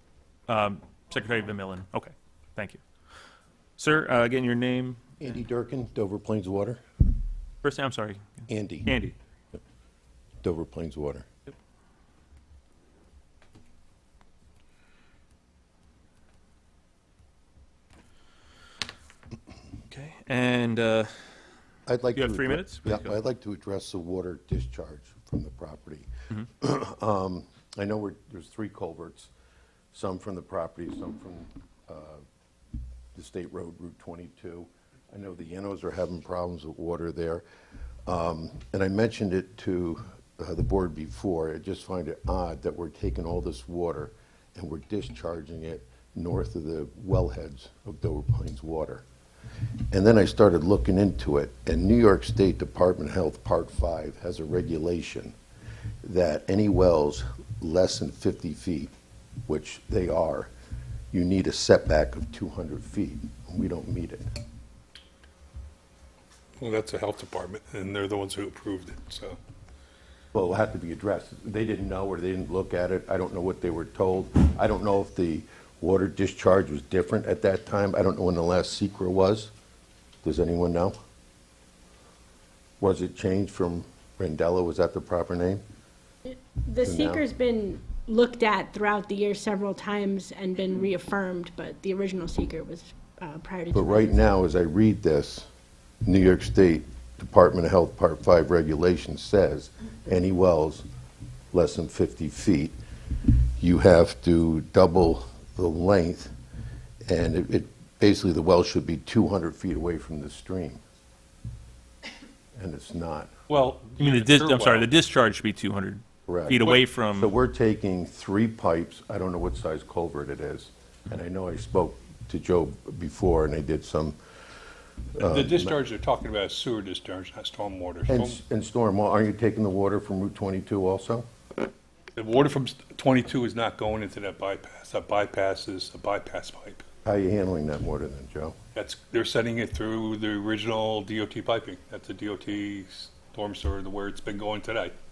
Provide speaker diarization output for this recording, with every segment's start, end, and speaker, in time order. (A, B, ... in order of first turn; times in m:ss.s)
0:00.5-0:02.8 A
0:03.8-0:05.0 A
0:05.2-0:06.8 B
0:07.6-0:09.2 A
0:08.5-0:08.9 B
0:10.4-0:11.3 B
0:19.9-0:21.1 A
0:21.9-0:29.3 B
0:22.1-0:23.2 A
0:29.9-0:32.2 B
0:33.2-0:37.4 B
0:38.1-0:49.0 B
0:49.9-0:55.4 B
0:56.0-0:58.9 B
0:59.5-1:00.5 B
1:01.1-1:04.3 B
1:06.6-1:09.4 C
1:10.3-1:19.5 B
1:20.2-1:21.0 B
1:22.8-1:25.6 B
1:26.2-1:34.3 D
1:26.8-1:27.2 B
1:33.7-1:35.5 B
1:36.0-1:40.8 B
1:41.5-1:42.7 B
1:43.6-1:46.3 B
1:47.1-1:50.8 B
1:52.6-1:53.3 B
1:53.5-1:54.9 C
1:54.0-1:57.3 A
1:56.3-2:04.2 B
2:05.2-2:05.7 B
2:05.2-2:08.4 C
2:08.1-2:11.3 B
2:12.2-2:16.8 C
2:17.0-2:18.6 B
2:18.8-2:24.9 C